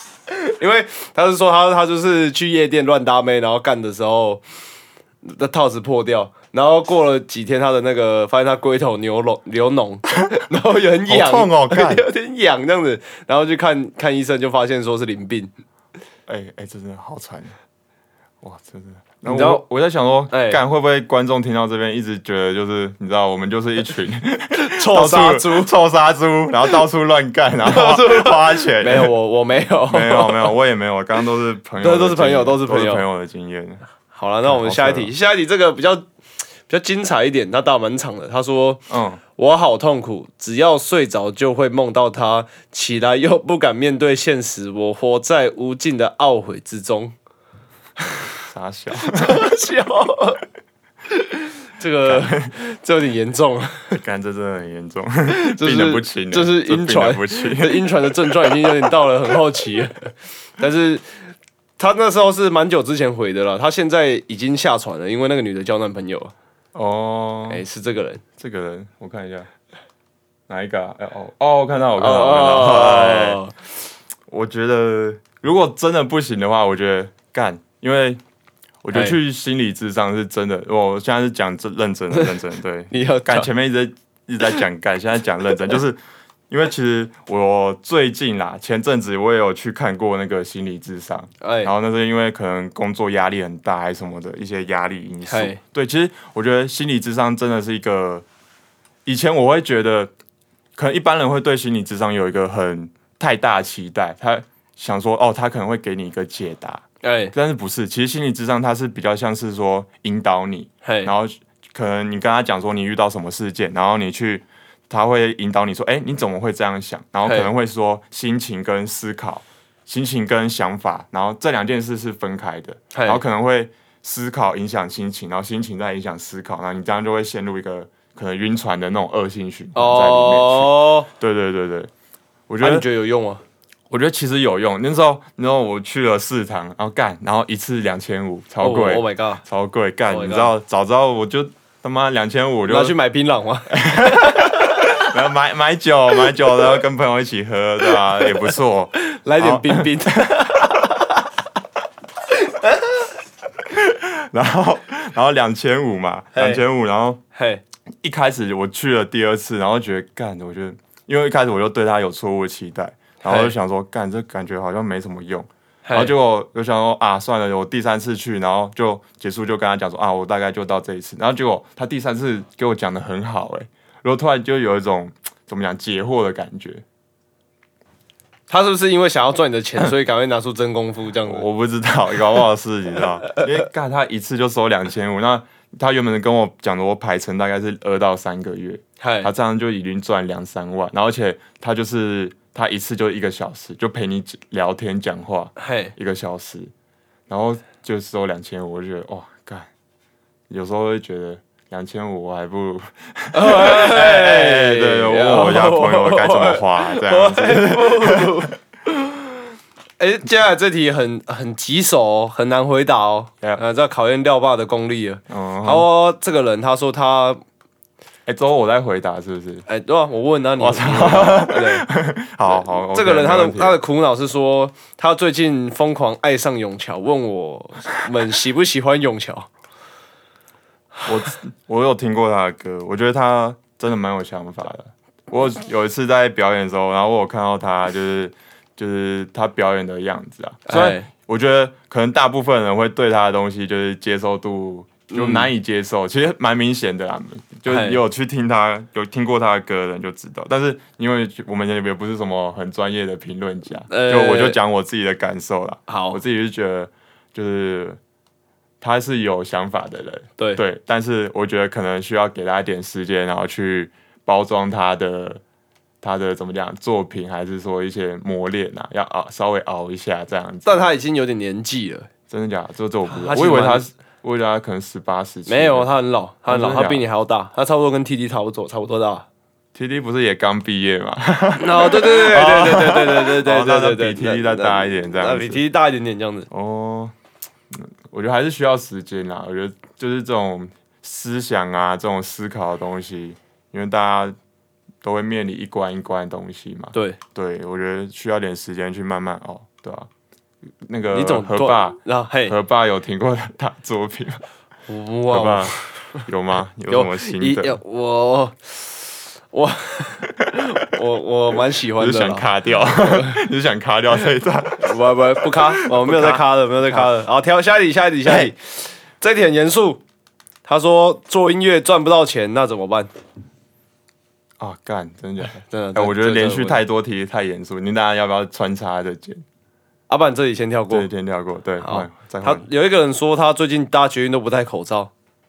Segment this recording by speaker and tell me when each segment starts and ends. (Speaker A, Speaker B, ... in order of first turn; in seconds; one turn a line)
Speaker A: 0.3-4.4
Speaker A: 5.2-15.5
Speaker B: 11.1-12.1
Speaker B: 16.3-17.6
Speaker B: 18.4-29.1
Speaker A: 19.2-19.6
Speaker A: 20.3-20.6
Speaker A: 24.5-25.7
Speaker A: 27.6-30.5
Speaker B: 29.9-33.8
Speaker A: 31.8-33.0
Speaker A: 34.1-36.0
Speaker B: 34.4-35.1
Speaker A: 36.7-47.1
Speaker B: 38.9-39.2
Speaker B: 48.4-49.5
Speaker A: 49.0-50.4
Speaker A: 51.1-54.0
Speaker B: 52.0-52.5
Speaker B: 53.9-58.9
Speaker A: 55.3-61.0
Speaker A: 61.8-66.3
Speaker B: 66.7-67.6
Speaker A: 67.5-68.2
Speaker B: 68.4-69.5
Speaker B: 70.5-73.4
Speaker A: 72.0-73.5
Speaker B: 74.3-78.2
Speaker B: 78.8-98.3
Speaker A: 78.9-79.2
Speaker A: 82.1-82.4
Speaker A: 82.9-83.5
Speaker A: 91.4-91.7
Speaker A: 95.3-95.6
Speaker B: 99.1-100.1
Speaker B: 100.8-131.9
Speaker A: 107.0-107.3
Speaker A: 110.8-111.1
Speaker A: 117.2-117.5
Speaker A: 122.9-123.2
Speaker A: 129.8-131.1
Speaker B: 132.5-132.9
Speaker A: 132.6-133.4
Speaker B: 133.9-142.9
Speaker A: 138.6-139.4
Speaker A: 140.1-140.5
Speaker A: 142.7-145.1
Speaker B: 143.7-150.6
Speaker A: 149.0-151.2
Speaker A: 152.3-152.9
Speaker B: 153.7-157.2
Speaker A: 156.3-156.6
Speaker A: 157.3-157.6
Speaker B: 158.0-176.8
Speaker A: 163.2-163.5
Speaker A: 165.8-166.1
Speaker A: 178.5-181.5
Speaker B: 181.2-196.7
Speaker A: 189.0-189.3
Speaker A: 195.6-195.9
Speaker B: 197.3-199.7
Speaker B: 200.5-208.4
Speaker A: 203.3-209.2
Speaker A: 210.0-217.4
Speaker B: 215.3-215.9
Speaker B: 218.3-219.7
Speaker A: 219.7-221.9
Speaker B: 220.6-223.8
Speaker A: 222.5-229.5
Speaker B: 231.1-258.0
Speaker A: 240.7-241.1
Speaker A: 245.1-245.5
Speaker A: 247.7-248.0
Speaker A: 253.9-254.6
Speaker A: 255.9-256.2
Speaker B: 258.8-265.4
Speaker B: 266.0-270.8
Speaker A: 270.6-272.1
Speaker B: 272.3-275.9
Speaker A: 273.1-273.9
Speaker A: 275.5-279.3
Speaker B: 276.5-277.0
Speaker B: 279.8-285.6
Speaker A: 281.6-286.5
Speaker B: 286.5-287.1
Speaker B: 287.7-294.4
Speaker B: 295.0-300.1
Speaker B: 300.9-304.4
Speaker A: 301.1-302.6
Speaker A: 304.9-306.3
Speaker B: 305.3-307.8
Speaker A: 306.9-313.4
Speaker B: 312.0-317.1
Speaker A: 314.8-320.0
Speaker B: 318.2-318.5
Speaker A: 320.6-323.1
Speaker B: 324.6-329.4
Speaker A: 325.7-326.8
Speaker A: 330.1-331.1
Speaker B: 330.9-332.7
Speaker A: 331.8-335.1